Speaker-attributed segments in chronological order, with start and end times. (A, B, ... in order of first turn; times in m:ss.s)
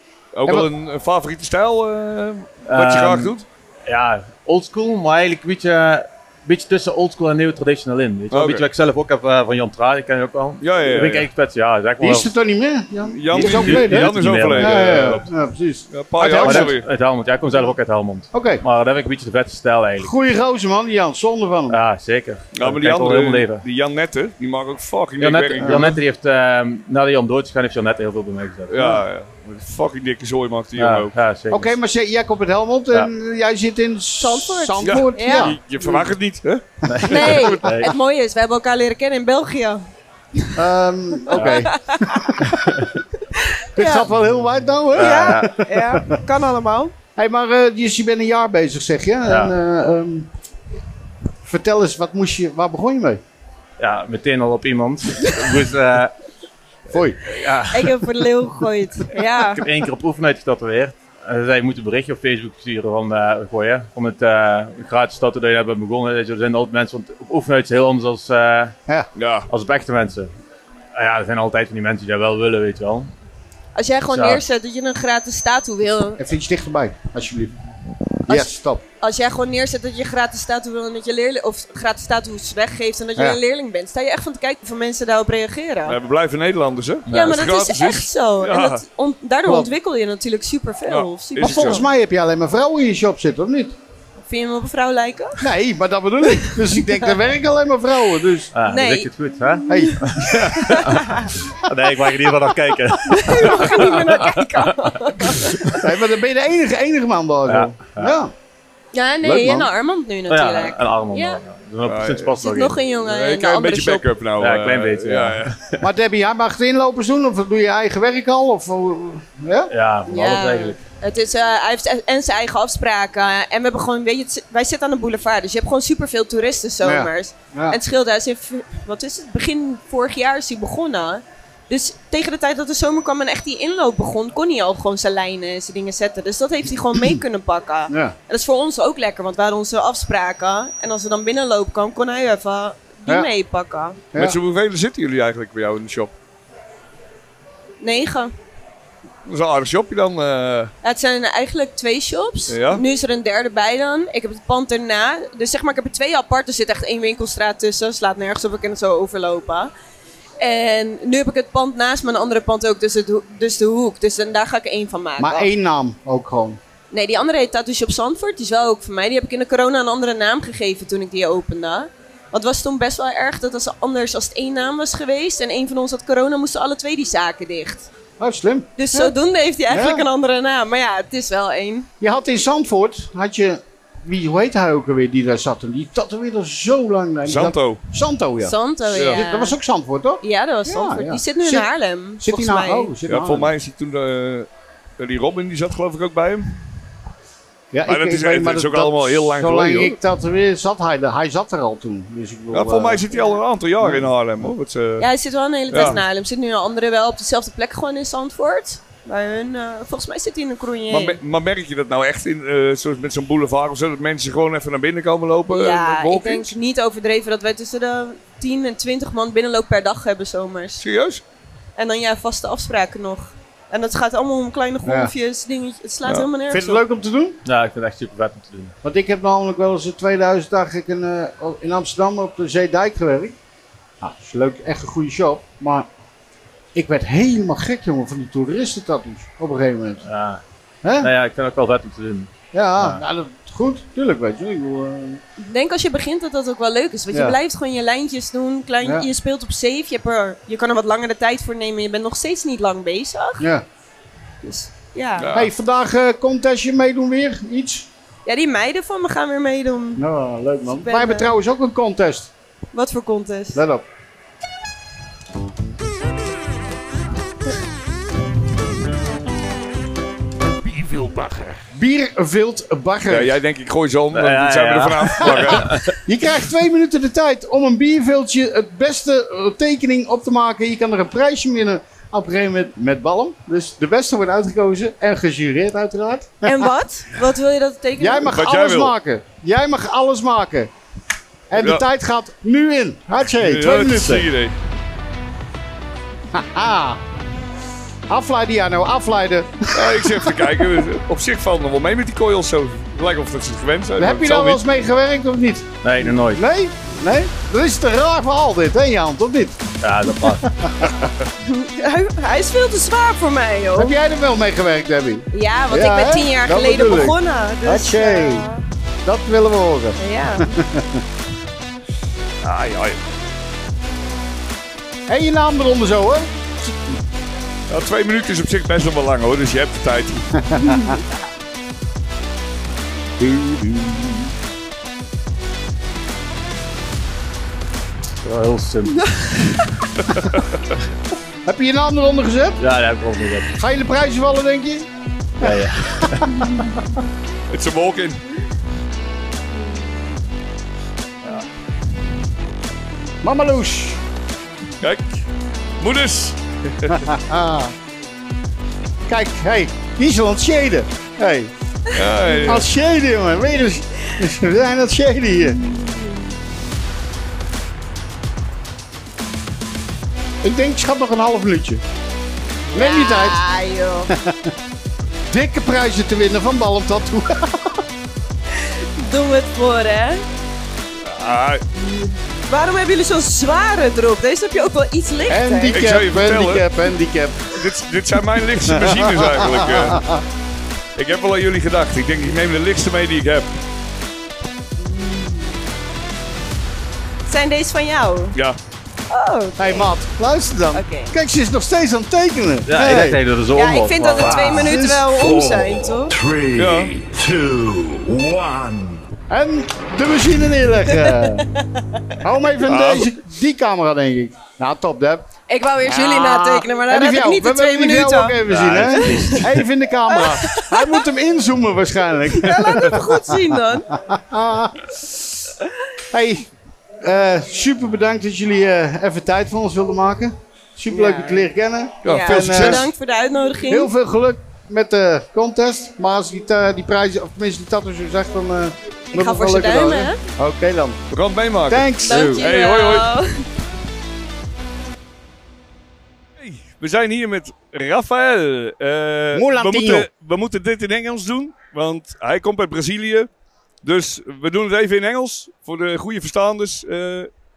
0:00.3-0:03.4 A
0:02.7-0:12.3 B
0:08.3-0:08.6 A
0:10.6-0:11.3 A
0:12.0-0:16.8 C
0:13.1-0:15.3 A
0:13.3-0:15.2 B
0:15.9-0:16.9 A
0:16.2-0:20.1 B
0:18.3-0:18.6 C
0:20.0-0:21.8 C
0:21.7-0:23.6 B
0:22.5-0:25.9 A
0:25.2-0:29.0 B
0:25.6-0:26.0 C
0:28.7-0:31.2 A
0:30.8-0:31.8 B
0:31.5-0:36.1 C
0:34.2-0:35.5 D
0:34.8-0:37.2 A
0:36.8-0:37.9 B
0:37.1-0:37.8 C
0:37.1-0:39.8 D
0:40.5-0:42.8 C
0:41.3-0:41.7 B
0:41.5-0:42.4 D
0:43.3-0:44.1 D
0:43.8-0:46.2 C
0:44.9-0:45.6 B
0:45.0-0:46.9 D
0:47.2-0:50.3 C
0:49.2-0:49.5 B
0:51.4-0:53.2 C
0:53.8-0:56.1 B
0:56.9-0:57.2 C
0:57.2-0:58.0 B
0:57.7-0:59.6 D
0:59.5-1:08.7 B
1:09.2-1:09.5 A
1:09.5-1:10.3 B
1:10.9-1:13.1 B
1:13.7-1:16.2 D
1:14.1-1:14.4 B
1:16.2-1:17.5 C
1:18.3-1:18.8 C
1:18.3-1:26.0 D
1:25.8-1:28.8 A
1:27.1-1:31.8 D
1:29.4-1:29.7 C
1:30.9-1:31.8 A
1:31.4-1:33.8 C
1:34.2-1:35.4 D
1:35.4-1:38.5 C
1:36.3-1:37.1 D
1:38.5-1:41.1 B
1:38.6-1:39.1 D
1:39.7-1:40.7 C
1:39.7-1:39.9 D
1:40.6-1:41.3 D
1:41.6-1:44.9 B
1:43.1-1:45.8 D
1:43.3-1:43.6 C
1:45.7-1:48.3 C
1:47.4-1:48.2 B
1:48.9-1:51.4 D
1:49.2-1:49.7 C
1:50.3-1:52.8 B
1:51.8-1:52.4 A
1:52.4-1:54.1 D
1:53.0-1:55.5 A
1:54.4-1:55.8 B
1:55.8-1:59.7 C
1:59.7-2:00.8 B
2:00.1-2:24.0 D
2:06.8-2:07.8 C
2:16.9-2:17.2 C
2:17.9-2:18.1 C
2:24.1-2:24.4 C
2:24.1-2:26.1 A
2:27.8-2:28.3 D
2:29.2-2:30.7 A
2:30.8-2:39.7 D
2:32.5-2:32.8 A
2:40.4-2:45.5 D
2:45.2-2:46.6 C
2:46.9-2:57.9 D
2:58.2-2:59.1 C
2:58.8-3:01.9 D
2:59.7-3:00.1 C
3:02.0-3:13.5 C
3:07.2-3:07.8 A
3:08.4-3:09.6 D
3:08.9-3:09.2 A
3:10.2-3:12.9 D
3:13.1-3:14.5 A
3:15.0-3:16.5 A
3:17.7-3:23.1 C
3:17.9-3:20.0 A
3:22.5-3:25.1 A
3:23.8-3:24.1 C
3:25.0-3:31.2 D
3:25.7-3:26.0 A
3:30.9-3:36.5 A
3:35.5-3:40.8 D
3:40.8-3:41.2 A
3:41.8-3:46.8 D
3:44.8-3:45.1 C
3:46.5-3:47.4 C
3:47.4-3:48.7 B
3:48.8-3:53.4 C
3:54.0-3:55.9 C
3:56.7-4:00.0 C
4:00.0-4:00.4 B
4:00.8-4:01.1 C
4:01.0-4:03.0 B
4:02.5-4:05.2 C
4:05.4-4:13.5 D
4:07.1-4:07.4 C
4:13.4-4:13.6 C
4:14.4-4:15.3 D
4:15.2-4:15.5 A
4:15.3-4:17.9 C
4:18.2-4:20.0 D
4:20.0-4:22.3 C
4:20.7-4:21.3 D
4:22.7-4:23.6 D
4:23.5-4:23.8 C
4:31.7-4:33.4 C
4:33.1-4:35.8 A
4:34.1-4:35.9 B
4:35.2-4:46.7 C
4:46.4-4:48.3 D
4:48.0-4:50.7 C
4:48.3-4:48.9 A
4:51.5-4:54.3 C
4:51.6-4:51.8 A
4:53.3-4:54.6 A
4:56.3-4:57.0 C
4:58.1-5:00.7 C
4:59.7-5:04.6 A
5:04.0-5:11.1 C
5:05.8-5:06.4 B
5:09.8-5:10.4 B
5:11.4-5:13.9 D
5:13.7-5:18.5 C
5:15.3-5:18.6 D
5:19.0-5:21.0 C
5:20.0-5:20.6 D
5:22.4-5:23.0 A
5:25.1-5:27.0 C
5:27.7-5:30.3 A
5:30.4-5:31.0 C
5:33.2-5:34.3 C
5:38.2-5:39.0 B
5:38.9-5:39.7 D
5:40.2-5:40.5 A
5:41.4-5:42.6 C
5:42.6-5:43.5 B
5:43.6-5:44.9 C
5:45.4-5:46.5 C
5:45.4-5:46.3 B
5:47.5-5:48.2 A
5:53.2-5:54.0 C
5:54.8-5:55.2 A
5:55.8-5:57.0 A
5:56.9-5:57.7 C
5:59.0-6:01.5 C
6:01.9-6:02.7 A
6:02.4-6:05.6 C
6:05.5-6:06.2 D
6:10.4-6:11.8 C
6:12.7-6:14.1 D
6:12.7-6:13.4 C
6:14.1-6:14.5 C
6:15.3-6:17.8 C
6:18.5-6:20.2 D
6:21.0-6:21.6 A
6:21.8-6:22.1 C
6:22.5-6:25.8 D
6:25.3-6:27.6 C
6:25.7-6:26.7 A
6:27.5-6:30.0 A
6:28.7-6:30.2 C
6:31.0-6:33.6 A
6:34.8-6:35.5 D
6:37.2-6:38.4 D
6:39.1-6:39.9 D
6:39.6-6:43.2 C
6:40.7-6:41.1 D
6:42.7-6:44.7 B
6:43.5-6:46.1 D
6:44.2-6:45.1 C
6:45.1-6:49.0 E
6:46.6-6:46.9 A
6:49.3-6:51.5 C
6:50.9-6:51.5 D
6:52.2-6:55.2 C
6:52.6-6:53.1 A
6:55.5-6:59.5 D
6:55.8-7:03.4 C
6:58.5-6:59.0 A
7:00.1-7:01.1 D
7:02.3-7:03.9 D
7:03.9-7:05.5 C
7:06.1-7:06.5 C
7:07.0-7:12.9 C
7:10.9-7:11.5 D
7:12.0-7:12.9 A
7:12.0-7:13.9 D
7:13.7-7:21.0 C
7:19.1-7:20.2 D
7:21.1-7:23.1 A
7:21.7-7:22.4 C
7:22.0-7:23.4 D
7:26.4-7:33.3 A
7:29.3-7:30.1 C
7:33.8-7:37.3 A